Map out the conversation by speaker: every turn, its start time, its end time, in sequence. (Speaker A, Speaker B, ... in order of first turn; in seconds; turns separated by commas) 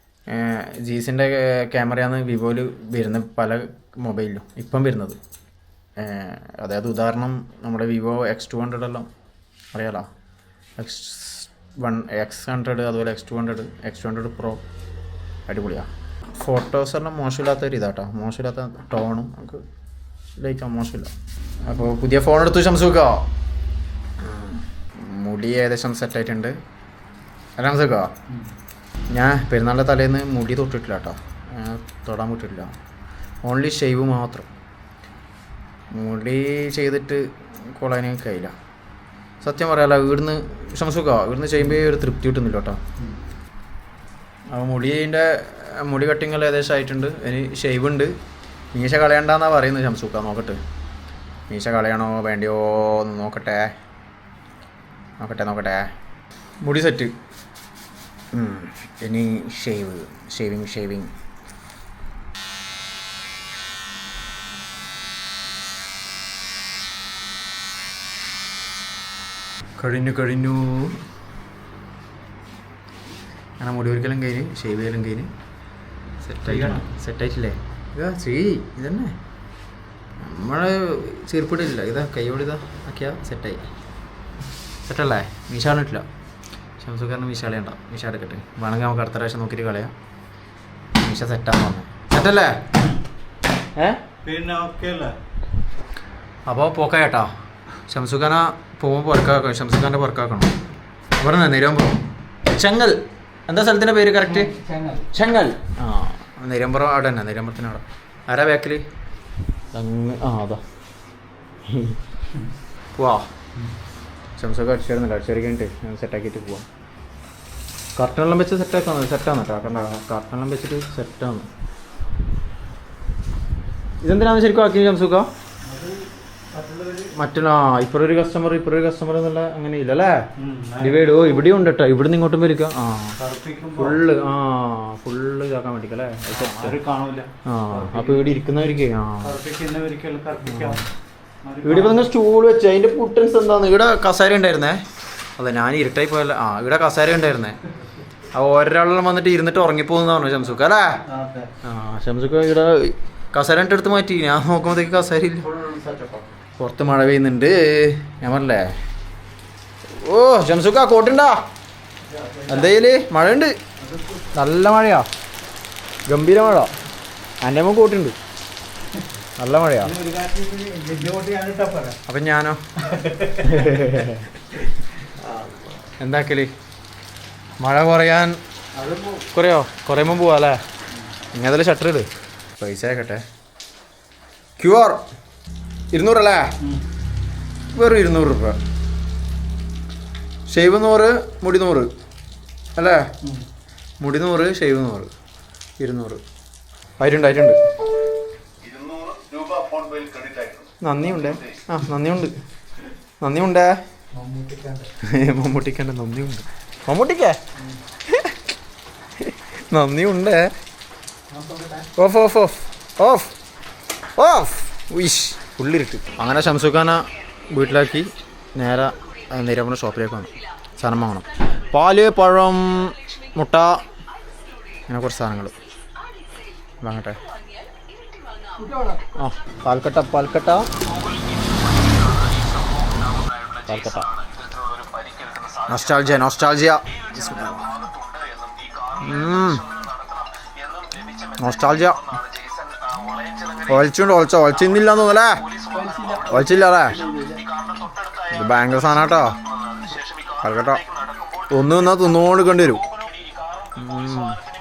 Speaker A: 0.3-5.2, Speaker A: 6.0-9.1, Speaker A: 9.7-10.1, Speaker A: 10.8-14.6, Speaker A: 15.5-19.6, Speaker A: 20.4-21.1, Speaker A: 21.6-23.3, Speaker A: 24.2-26.6, Speaker A: 27.6-28.1, Speaker A: 29.1-32.7, Speaker A: 33.4-34.5, Speaker A: 35.9-38.5, Speaker A: 39.4-42.8, Speaker A: 44.5-48.1, Speaker A: 48.7-50.6, Speaker A: 51.5-53.7, Speaker A: 55.2-55.9, Speaker A: 56.6-57.1, Speaker A: 58.3-61.1, Speaker A: 69.8-71.0, Speaker A: 73.6-75.3, Speaker A: 76.2-79.1, Speaker B: 76.4-76.8, Speaker A: 80.2-83.6, Speaker A: 84.8-86.0, Speaker A: 86.8-89.9, Speaker A: 91.0-92.6, Speaker A: 93.8-94.0, Speaker B: 94.2-95.1, Speaker A: 96.5-97.3, Speaker A: 97.9-100.5, Speaker A: 101.2-104.5, Speaker B: 104.2-105.1, Speaker A: 105.1-108.8, Speaker A: 109.7-110.6, Speaker A: 111.7-112.0, Speaker A: 112.9-113.3, Speaker A: 114.4-116.7, Speaker A: 118.0-121.5, Speaker A: 124.0-125.3, Speaker B: 125.6-127.2, Speaker A: 127.1-130.3, Speaker B: 130.4-131.5, Speaker A: 130.8-133.2, Speaker B: 133.2-134.0, Speaker A: 133.8-136.7, Speaker B: 136.3-138.4, Speaker A: 137.4-139.3, Speaker B: 139.2-140.9, Speaker A: 140.5-140.8, Speaker B: 141.4-142.1, Speaker A: 141.6-144.8, Speaker A: 145.4-147.6, Speaker A: 148.3-151.0, Speaker B: 151.0-151.5, Speaker A: 151.6-155.5, Speaker B: 155.5-156.3, Speaker A: 156.6-158.7, Speaker A: 159.9-161.4, Speaker B: 162.0-162.7, Speaker A: 162.5-163.5, Speaker B: 163.8-164.3, Speaker A: 164.3-165.1, Speaker A: 166.1-166.7, Speaker A: 167.4-168.2, Speaker A: 169.4-169.9, Speaker B: 169.8-172.0, Speaker A: 172.1-172.6, Speaker B: 172.8-173.9, Speaker A: 173.4-174.3, Speaker B: 175.2-175.7, Speaker A: 176.0-176.5, Speaker A: 177.6-178.4, Speaker B: 178.7-179.3, Speaker A: 179.3-180.6, Speaker A: 181.3-183.2, Speaker A: 184.6-185.0, Speaker A: 185.9-186.5, Speaker A: 187.7-188.6, Speaker A: 190.5-191.9, Speaker A: 192.8-193.1, Speaker A: 194.0-195.1, Speaker A: 195.8-196.2, Speaker A: 197.0-197.6, Speaker C: 198.8-200.6, Speaker A: 200.8-202.3, Speaker A: 203.2-203.8, Speaker B: 204.1-204.9, Speaker A: 205.0-207.4, Speaker B: 207.6-207.8, Speaker A: 208.1-208.3, Speaker A: 209.2-210.5, Speaker B: 211.3-211.9, Speaker A: 211.9-213.3, Speaker A: 214.2-223.8, Speaker A: 224.9-225.6, Speaker A: 226.8-227.2, Speaker B: 228.6-229.0, Speaker A: 229.2-230.7, Speaker C: 231.8-233.5, Speaker A: 233.6-234.1, Speaker C: 234.3-235.6, Speaker A: 235.6-237.9, Speaker C: 237.9-238.8, Speaker A: 238.9-239.7, Speaker C: 240.7-241.2, Speaker A: 241.3-242.2, Speaker C: 242.3-243.5, Speaker A: 243.5-245.6, Speaker B: 245.6-247.5, Speaker A: 246.1-247.1, Speaker C: 247.7-248.1, Speaker A: 248.2-249.4, Speaker C: 249.8-250.2, Speaker A: 250.3-250.9, Speaker C: 251.0-251.3, Speaker A: 251.5-252.8, Speaker C: 253.2-253.5, Speaker A: 253.7-254.4